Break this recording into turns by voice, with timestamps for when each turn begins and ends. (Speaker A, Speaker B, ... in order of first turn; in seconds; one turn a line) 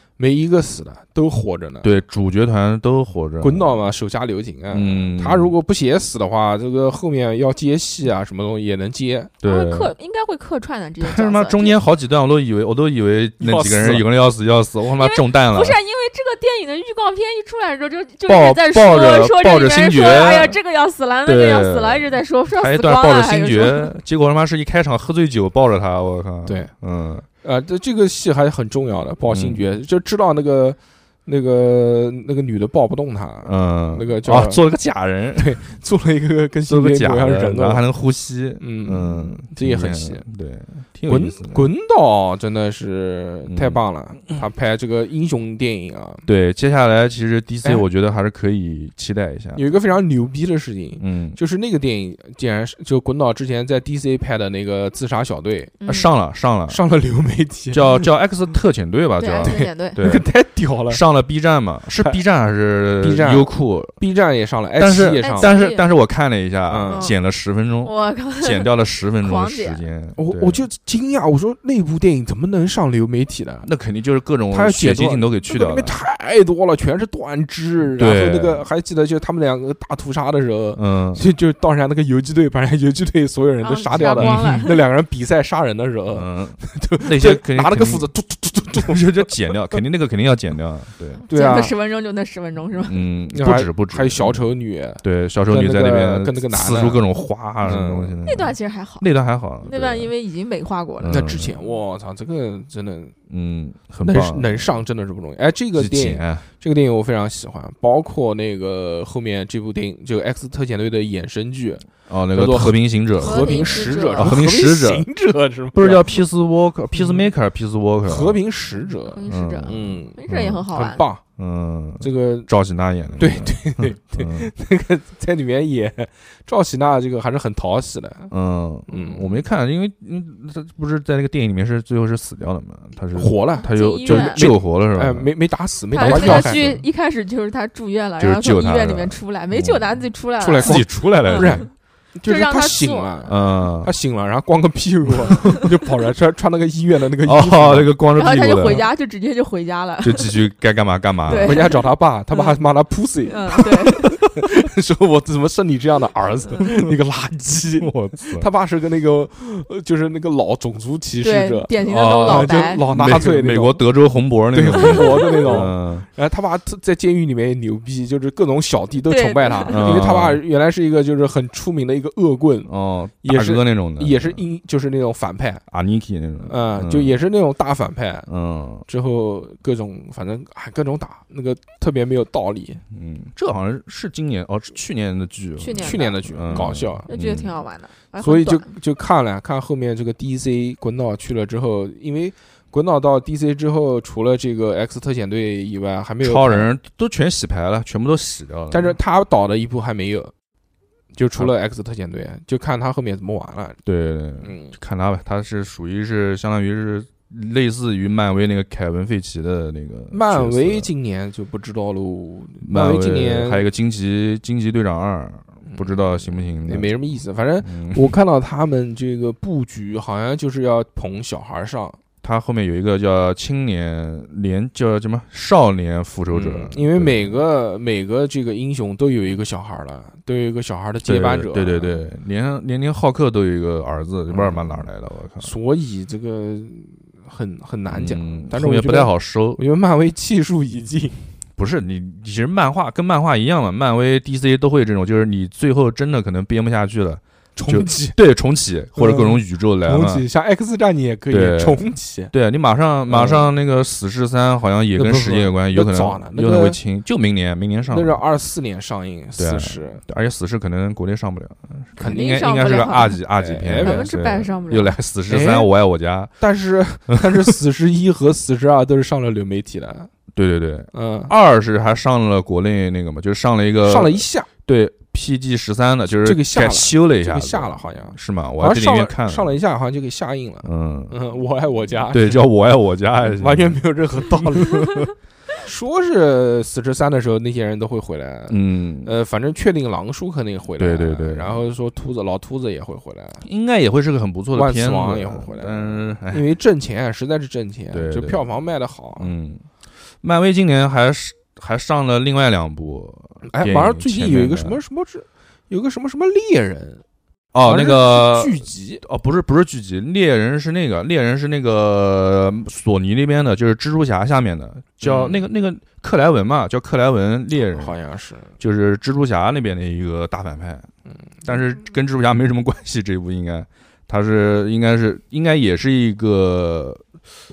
Speaker A: 0.2-1.9
Speaker B: 1.8-3.6
Speaker A: 3.4-9.3
Speaker B: 4.7-5.5
Speaker B: 9.4-9.9
Speaker C: 9.4-11.8
Speaker B: 11.0-15.8
Speaker A: 13.4-14.1
Speaker C: 15.0-23.9
Speaker B: 18.3-20.6
Speaker B: 21.2-27.3
Speaker A: 26.4-26.7
Speaker A: 27.4-34.6
Speaker B: 29.3-29.6
Speaker B: 33.5-35.6
Speaker A: 35.4-37.8
Speaker B: 36.7-41.7
Speaker A: 38.6-40.2
Speaker A: 41.1-46.3
Speaker B: 43.5-43.8
Speaker B: 46.3-49.6
Speaker A: 49.5-55.7
Speaker B: 51.0-51.4
Speaker C: 55.8-56.1
Speaker B: 55.9-56.8
Speaker A: 56.7-58.1
Speaker B: 57.7-60.3
Speaker C: 59.2-60.0
Speaker A: 59.4-61.0
Speaker B: 60.9-64.0
Speaker A: 63.0-65.6
Speaker B: 64.8-70.6
Speaker C: 65.2-65.9
Speaker A: 66.7-67.1
Speaker C: 66.9-67.2
Speaker C: 67.8-69.8
Speaker A: 70.2-73.7
Speaker B: 73.6-76.0
Speaker A: 74.5-89.8
Speaker B: 78.0-78.7
Speaker B: 80.8-81.2
Speaker C: 83.6-84.8
Speaker B: 84.2-84.6
Speaker B: 86.1-88.1
Speaker B: 88.9-91.2
Speaker A: 91.3-91.7
Speaker C: 91.3-93.0
Speaker B: 92.8-94.4
Speaker A: 93.3-97.0
Speaker B: 95.0-100.1
Speaker A: 97.6-98.2
Speaker C: 98.2-99.1
Speaker C: 99.6-101.3
Speaker B: 101.0-101.5
Speaker A: 101.1-103.1
Speaker B: 103.3-104.7
Speaker A: 104.0-116.2
Speaker B: 105.8-106.5
Speaker B: 112.1-115.1
Speaker C: 113.2-114.3
Speaker B: 115.7-118.4
Speaker A: 116.9-117.3
Speaker A: 118.1-121.2
Speaker C: 119.0-121.0
Speaker B: 119.3-120.7
Speaker B: 121.4-124.5
Speaker A: 122.0-122.5
Speaker A: 123.2-128.3
Speaker B: 128.3-135.3
Speaker A: 128.9-129.4
Speaker A: 133.2-136.7
Speaker C: 133.6-134.4
Speaker C: 135.9-141.7
Speaker B: 136.0-136.8
Speaker B: 138.2-139.8
Speaker A: 140.4-147.9
Speaker B: 140.6-141.7
Speaker C: 142.3-143.3
Speaker B: 143.3-143.9
Speaker B: 145.2-145.6
Speaker B: 147.2-148.9
Speaker C: 148.2-150.4
Speaker B: 150.0-151.7
Speaker C: 151.3-152.6
Speaker A: 151.3-163.8
Speaker C: 153.3-154.2
Speaker B: 157.8-158.5
Speaker C: 161.2-162.8
Speaker B: 161.8-166.1
Speaker A: 164.5-172.7
Speaker C: 164.7-165.6
Speaker C: 169.1-169.8
Speaker B: 169.7-170.4
Speaker B: 172.7-174.4
Speaker A: 173.2-175.6
Speaker B: 175.7-177.2
Speaker A: 176.5-178.3
Speaker B: 178.3-178.8
Speaker A: 178.9-182.8
Speaker B: 182.9-187.5
Speaker C: 185.6-188.7
Speaker A: 185.8-187.1
Speaker A: 188.2-196.7
Speaker B: 196.2-199.0
Speaker A: 198.7-200.3
Speaker A: 201.1-203.8
Speaker B: 203.8-210.9
Speaker A: 204.4-204.8
Speaker A: 210.1-213.7
Speaker B: 212.6-216.9
Speaker A: 215.7-222.0
Speaker B: 217.6-218.2
Speaker B: 222.2-227.3
Speaker A: 226.3-232.0
Speaker B: 231.0-235.5
Speaker A: 234.3-234.9
Speaker A: 235.4-241.2
Speaker B: 237.9-239.6
Speaker B: 241.6-250.2
Speaker A: 247.6-248.2
Speaker A: 248.9-252.3
Speaker B: 251.3-258.2
Speaker A: 253.1-253.5
Speaker A: 254.9-256.8
Speaker A: 257.9-260.0
Speaker B: 259.4-266.3
Speaker A: 262.0-262.3
Speaker C: 262.0-263.2
Speaker A: 263.4-264.1
Speaker C: 263.8-265.0
Speaker A: 265.3-265.7
Speaker A: 266.4-270.1
Speaker B: 270.3-279.6
Speaker A: 270.9-271.3
Speaker A: 273.9-274.5
Speaker A: 276.2-282.5
Speaker B: 280.6-281.1
Speaker B: 282.1-285.1
Speaker A: 283.2-293.4
Speaker B: 288.5-289.1
Speaker B: 290.8-291.6
Speaker B: 293.4-296.4
Speaker A: 294.5-299.3
Speaker B: 297.9-298.4
Speaker B: 299.2-299.6
Speaker B: 300.2-304.8
Speaker A: 303.5-307.0
Speaker B: 307.5-317.9
Speaker A: 307.6-309.0
Speaker A: 315.0-315.4
Speaker A: 317.7-318.5
Speaker B: 318.6-320.9
Speaker A: 321.1-321.5
Speaker B: 321.4-327.0